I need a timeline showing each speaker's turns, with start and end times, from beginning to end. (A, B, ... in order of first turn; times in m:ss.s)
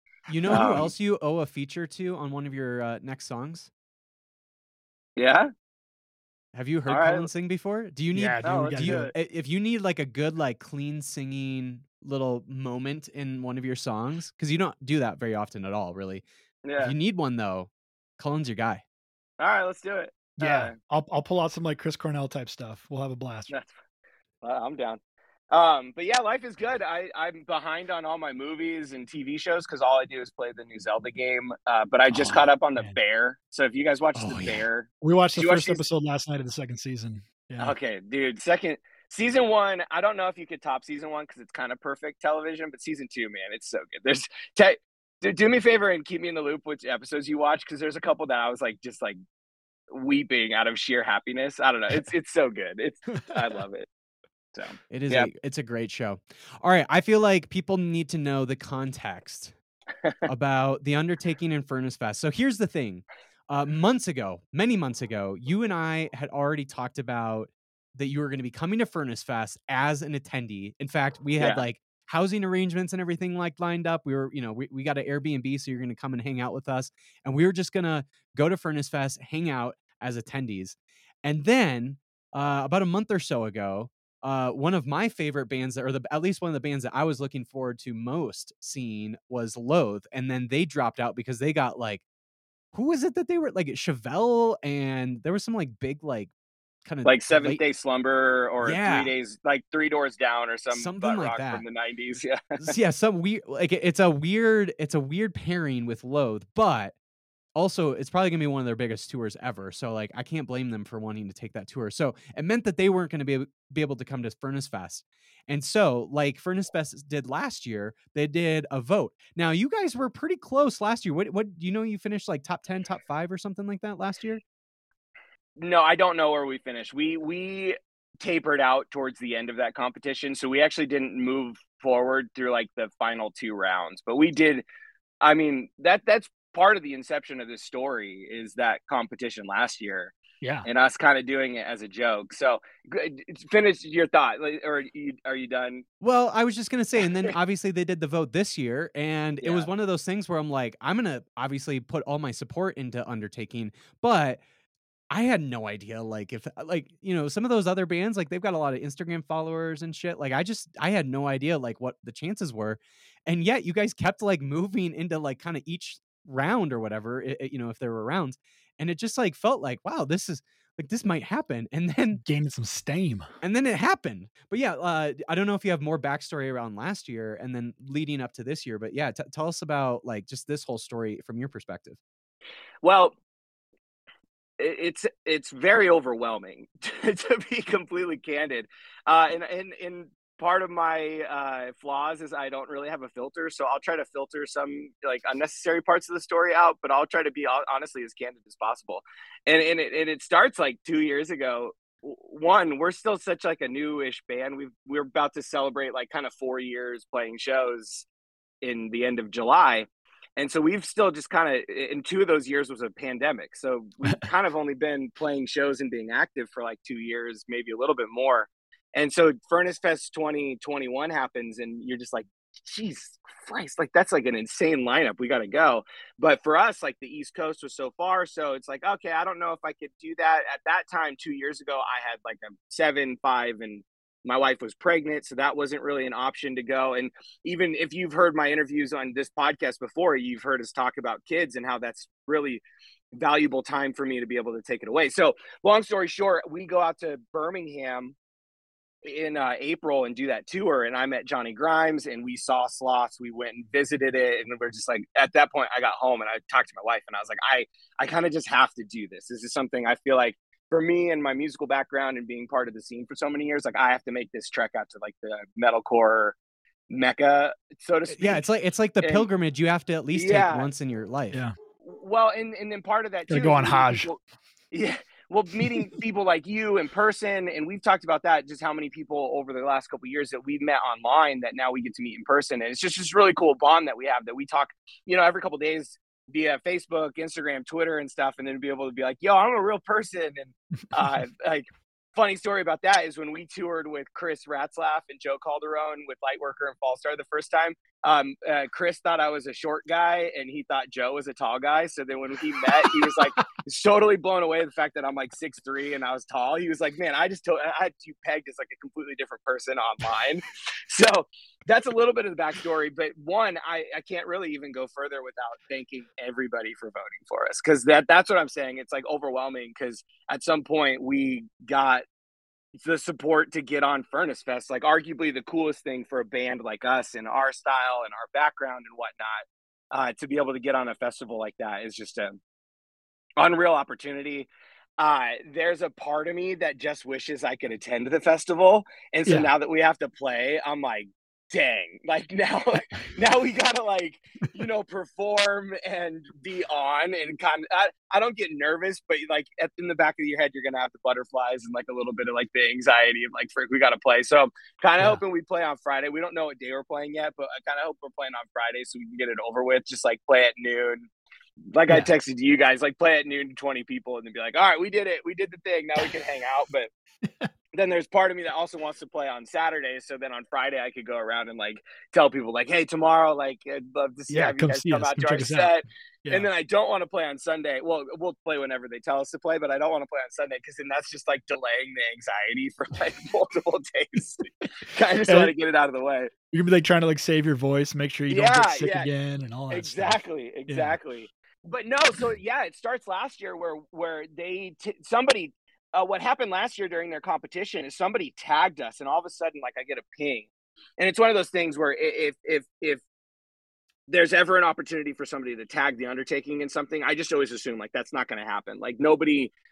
0:00.3-0:03.7 A
0:00.5-0:00.9 B
0:05.2-0:05.5 B
0:06.5-0:16.2 A
0:06.9-0:07.3 B
0:08.1-0:09.1 C
0:08.4-0:09.1 B
0:16.6-0:16.9 B
0:16.8-0:18.8 A
0:19.4-0:20.7 B
0:20.4-0:23.5 C
0:24.4-0:25.0 B
0:25.5-0:35.8 B
0:32.1-0:33.0 C
0:34.2-0:34.6 A
0:35.0-0:37.7 C
0:37.6-0:49.2 B
0:49.9-0:53.9 B
0:54.5-0:55.3 B
0:54.9-0:59.5 A
1:00.3-1:32.0 A
1:11.4-1:11.6 B
1:32.7-1:36.3 A
1:36.8-1:37.6 A
1:37.0-1:42.7 B
1:38.6-1:39.1 A
1:40.7-1:41.6 A
1:42.6-1:46.9 A
1:47.6-2:04.4 A
2:05.6-2:14.6 B
2:15.2-2:20.1 B
2:20.4-2:20.7 C
2:20.6-2:25.8 B
2:26.0-2:34.4 A
2:29.4-2:29.7 B
2:35.1-2:52.2 A
2:52.2-2:53.3 C
2:53.4-3:02.0 A
3:02.8-3:03.1 B
3:04.6-3:28.0 B
3:28.6-4:02.6 B
4:03.2-4:08.1 B
4:09.0-4:26.3 B
4:26.9-4:28.4 B
4:28.2-4:31.4 A
4:29.0-4:29.3 B
4:30.1-4:30.7 B
4:31.8-4:34.2 B
4:33.3-4:34.1 C
4:34.7-5:22.0 B
5:02.9-5:03.2 C
5:22.8-5:32.4 B
5:33.4-6:01.1 B
5:39.2-5:39.5 C
6:01.7-6:06.9 B
6:07.2-6:07.5 C
6:07.7-6:26.3 B
6:14.3-6:16.5 C
6:25.3-6:25.5 C
6:26.5-6:31.0 C
6:28.3-6:29.1 B
6:29.7-6:43.0 B
6:44.1-6:49.5 B